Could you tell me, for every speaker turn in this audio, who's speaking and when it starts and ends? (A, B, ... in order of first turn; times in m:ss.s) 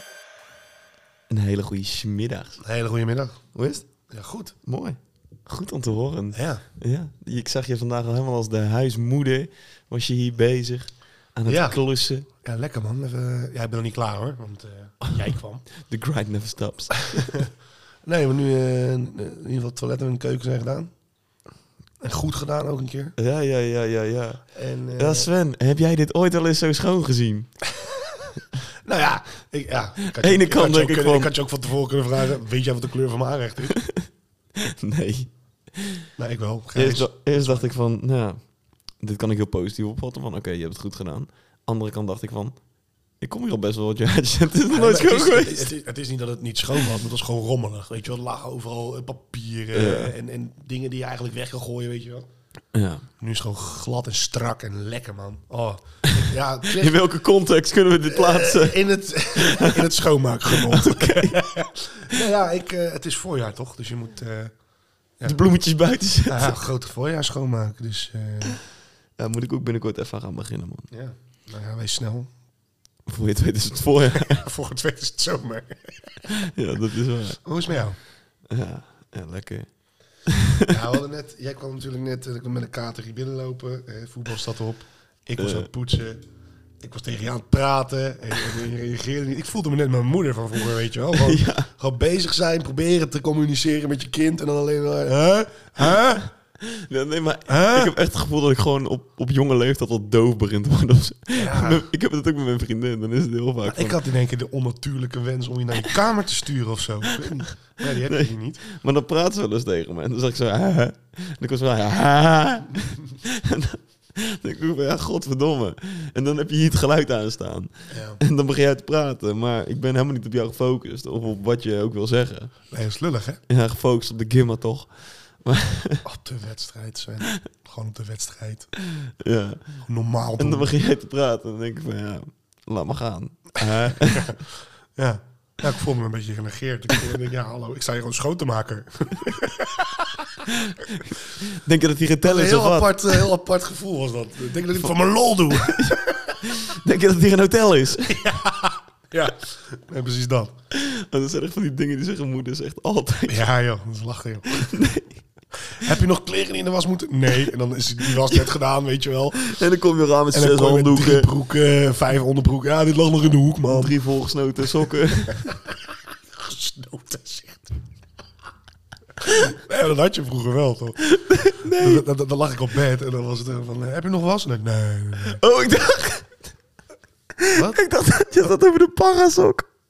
0:01.3-0:02.6 A
0:02.6-0:03.4 B
0:03.5-0:03.9 A
0:04.1-0:04.6 B
0:04.6-0:12.2 A
0:06.3-0:06.6 B
0:11.5-0:15.6 B
0:15.8-0:17.4 A
0:17.2-0:17.5 B
0:18.0-0:20.9 B
0:22.0-0:23.2 B
0:23.2-0:27.6 A
0:24.5-0:25.3 B
0:28.8-0:33.8 B
0:30.2-0:31.3 A
0:33.8-0:36.0 A
0:36.2-0:37.7 B
0:36.7-0:38.4 A
0:39.0-0:42.6 A
0:43.2-0:45.7 A
0:44.7-0:52.3 B
0:49.7-0:50.1 A
0:52.7-0:53.0 A
0:53.2-0:57.0 B
0:56.7-0:58.8 A
0:58.1-1:04.6 B
0:59.3-0:59.9 A
1:00.5-1:01.5 A
1:05.2-1:06.6 A
1:06.2-1:08.6 B
1:09.2-1:10.9 A
1:10.9-1:12.3 B
1:13.0-1:14.4 A
1:14.1-1:16.3 B
1:16.5-1:17.4 A
1:17.4-1:18.0 B
1:18.4-1:20.7 A
1:20.7-1:26.2 B
1:25.4-1:25.7 A
1:26.8-1:36.3 B
1:31.1-1:31.7 A
1:36.6-1:44.0 A
1:37.5-1:37.9 B
1:41.3-1:41.8 B
1:43.6-1:48.6 B
1:47.8-2:02.6 A
1:57.9-1:58.2 B
2:02.7-2:03.4 B
2:03.5-2:06.0 A
2:06.0-2:08.8 B
2:09.0-2:09.8 A
2:09.8-2:10.7 B
2:10.4-2:14.4 A
2:13.9-2:20.5 B
2:20.5-2:23.3 A
2:22.2-2:26.4 B
2:25.5-2:28.3 A
2:28.1-2:30.5 B
2:30.7-2:33.5 A
2:33.3-2:34.8 B
2:34.5-2:35.2 A
2:35.7-2:39.6 B
2:38.2-2:38.5 A
2:39.4-2:41.3 A
2:40.3-2:43.9 B
2:43.7-2:45.5 A
2:46.3-2:47.7 B
2:49.2-2:55.4 B
2:51.1-2:52.1 A
2:55.3-2:56.5 A
2:57.4-2:59.7 A
2:57.5-2:57.8 B